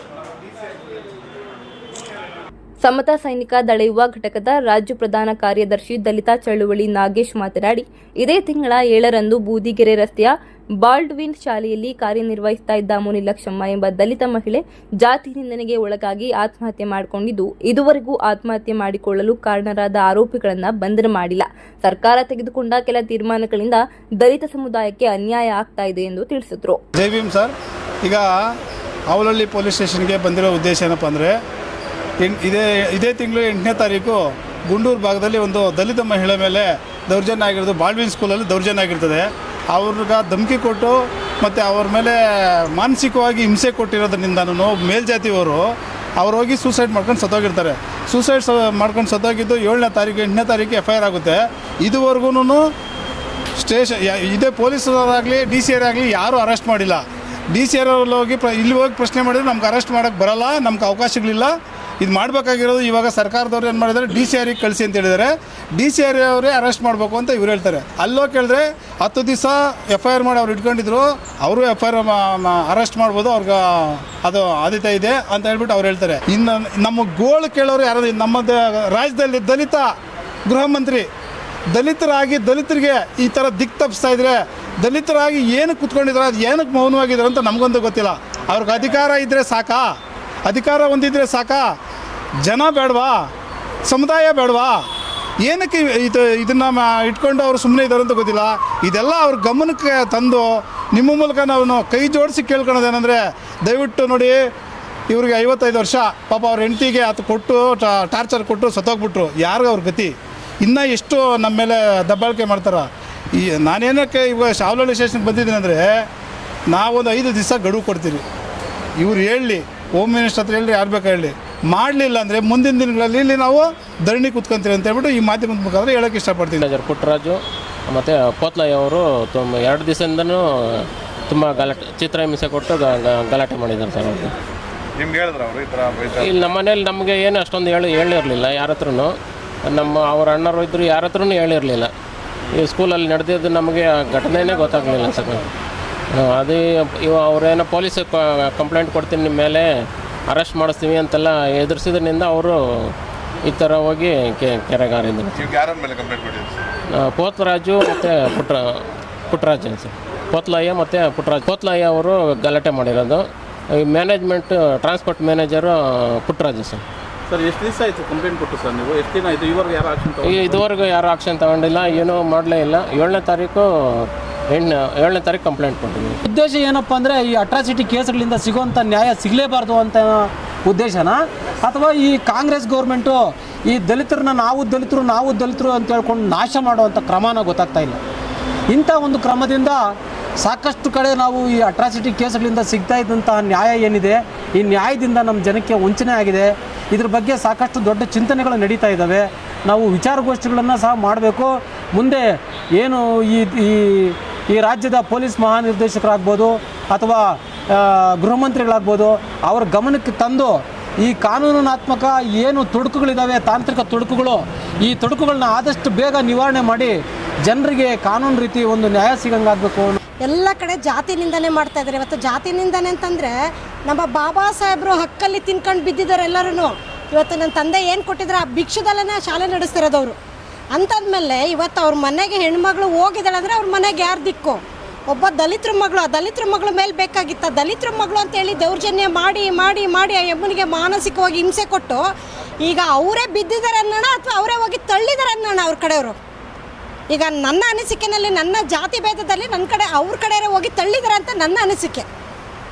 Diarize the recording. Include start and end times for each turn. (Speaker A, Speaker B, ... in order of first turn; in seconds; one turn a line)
Speaker A: 2.8-26.8
Speaker B: 26.9-28.5
Speaker B: 29.1-31.3
Speaker B: 32.2-52.7
Speaker B: 53.6-79.9
Speaker B: 80.5-81.0
Speaker B: 81.7-89.9
Speaker B: 90.5-91.7
Speaker B: 92.4-93.3
Speaker B: 93.8-94.8
Speaker B: 95.4-104.4
Speaker B: 105.1-116.0
Speaker B: 116.7-118.2
Speaker B: 119.0-126.6
Speaker C: 126.6-134.3
Speaker D: 135.0-136.4
Speaker C: 136.2-139.1
Speaker C: 139.6-141.9
Speaker C: 142.5-145.5
Speaker C: 146.1-149.7
Speaker C: 150.3-152.9
Speaker C: 153.4-155.5
Speaker D: 155.4-156.6
Speaker C: 156.9-158.7
Speaker C: 159.3-163.2
Speaker C: 163.8-166.8
Speaker E: 167.3-170.7
Speaker C: 170.2-176.2
Speaker F: 176.2-188.0
Speaker F: 188.7-220.0
Speaker G: 220.2-223.3
Speaker G: 223.8-230.2
Speaker G: 230.7-242.0
Speaker G: 242.6-246.2
Speaker G: 247.1-252.1